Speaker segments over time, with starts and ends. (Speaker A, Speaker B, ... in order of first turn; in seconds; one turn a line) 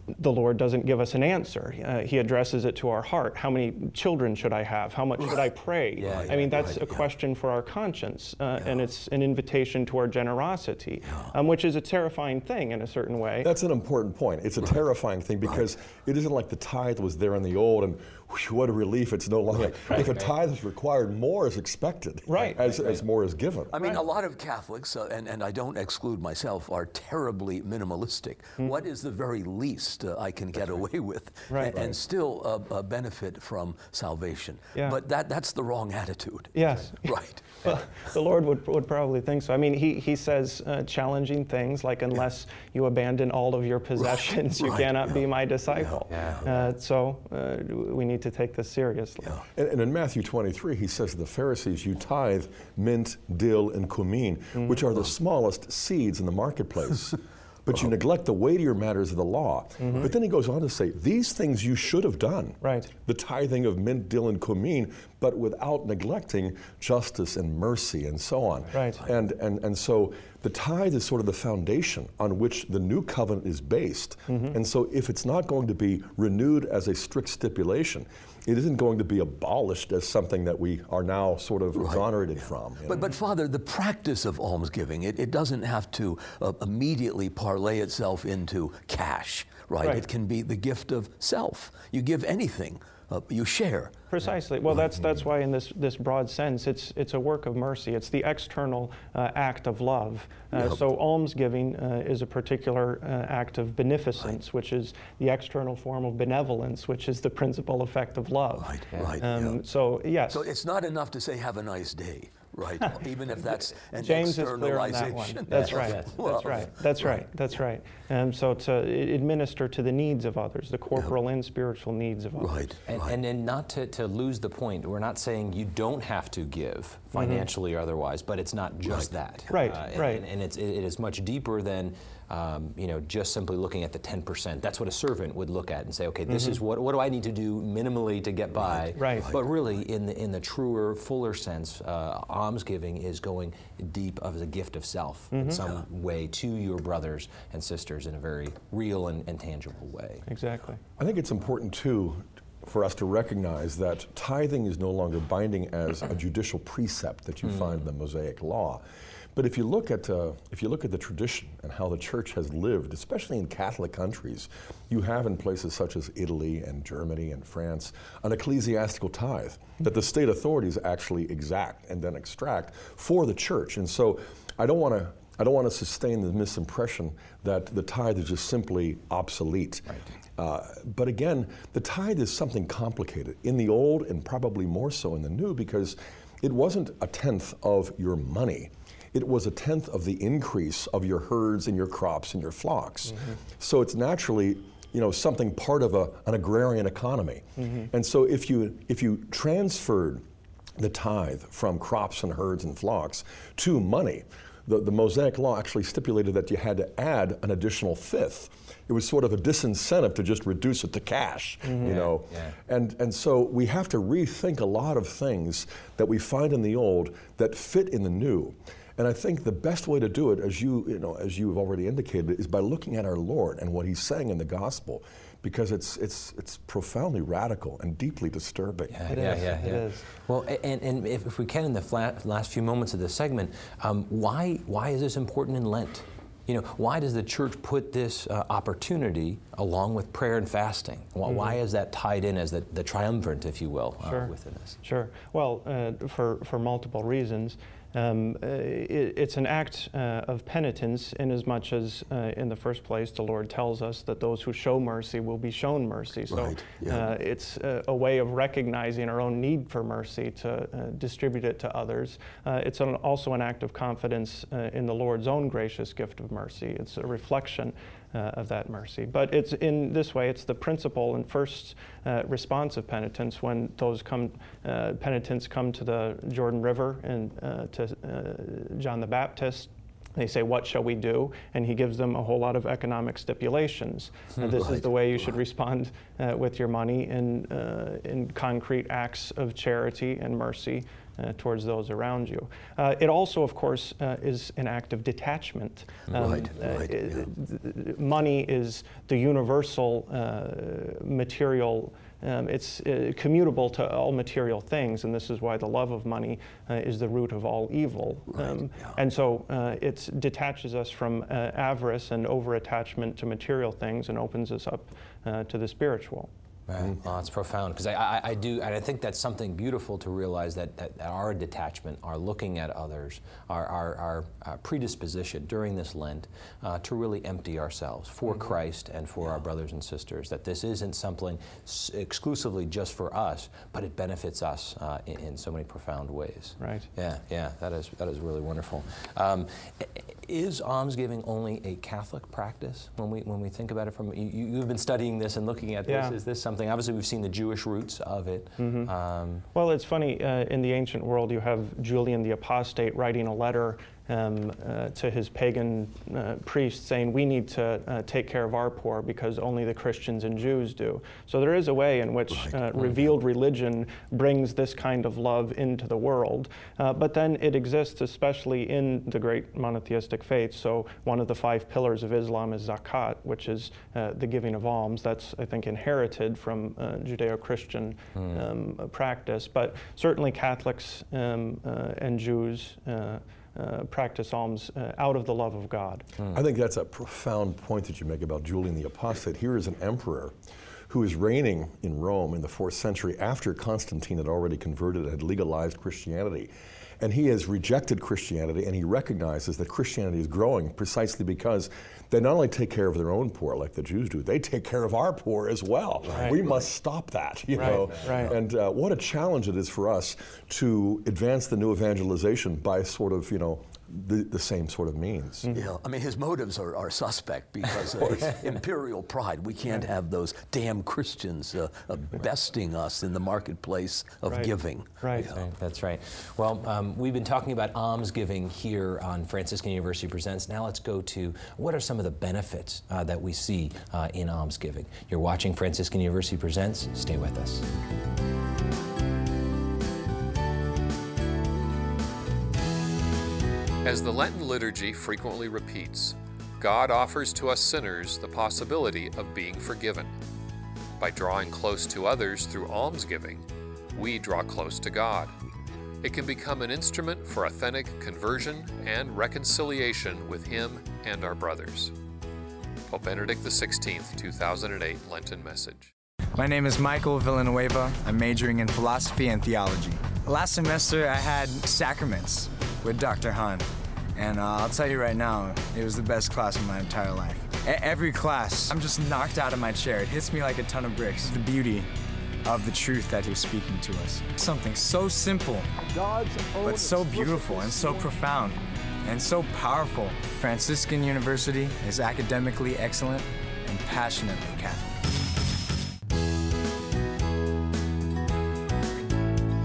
Speaker A: 0.1-13.5
Speaker B: 5.2-5.4
Speaker C: 6.0-6.7
Speaker B: 6.0-7.0
Speaker B: 11.1-11.3
Speaker D: 13.4-23.8
Speaker A: 22.3-22.6
Speaker B: 23.7-38.1
Speaker A: 23.7-24.0
Speaker A: 31.5-31.8
Speaker D: 31.7-32.0
Speaker A: 36.5-49.4
Speaker B: 44.0-46.5
Speaker C: 46.1-46.7
Speaker D: 49.5-83.1
Speaker A: 54.5-54.8
Speaker A: 59.8-60.1
Speaker A: 62.6-62.9
Speaker A: 68.7-69.0
Speaker A: 74.3-74.6
Speaker B: 81.8-82.0
Speaker B: 82.9-94.0
Speaker A: 94.1-110.5
Speaker B: 100.5-100.8
Speaker B: 108.5-109.6
Speaker B: 110.3-117.2
Speaker A: 112.8-122.7
Speaker C: 115.5-116.7
Speaker B: 122.4-123.2
Speaker C: 122.9-150.2
Speaker A: 127.2-127.5
Speaker B: 128.8-129.7
Speaker A: 129.5-130.2
Speaker A: 136.3-136.6
Speaker B: 138.6-139.4
Speaker A: 139.0-139.3
Speaker A: 145.3-145.6
Speaker A: 150.3-150.8
Speaker D: 151.0-158.8
Speaker D: 159.3-200.2
Speaker A: 197.6-197.9
Speaker D: 200.8-229.1
Speaker A: 211.6-212.0
Speaker C: 211.8-212.6
Speaker C: 228.9-244.8
Speaker A: 229.1-230.0
Speaker A: 241.2-241.6
Speaker A: 244.0-244.3
Speaker A: 244.8-316.3
Speaker B: 256.3-257.1
Speaker B: 284.5-285.3
Speaker B: 296.1-297.3
Speaker B: 308.3-309.0
Speaker C: 316.7-349.4
Speaker A: 336.6-336.9
Speaker A: 345.9-346.2
Speaker A: 348.6-348.9
Speaker A: 349.5-386.1
Speaker B: 362.3-362.6
Speaker D: 386.3-390.3
Speaker D: 390.9-415.5
Speaker B: 406.0-406.7
Speaker A: 406.1-406.4
Speaker A: 407.6-408.3
Speaker B: 407.6-408.3
Speaker A: 415.4-415.7
Speaker B: 415.5-425.4
Speaker A: 424.2-425.3
Speaker C: 425.2-437.6
Speaker E: 443.8-450.1
Speaker E: 451.0-453.4
Speaker E: 453.9-455.3
Speaker E: 456.0-461.9
Speaker E: 462.9-465.9
Speaker F: 466.4-481.9
Speaker F: 482.4-485.8
Speaker D: 485.9-488.0
Speaker F: 486.6-495.0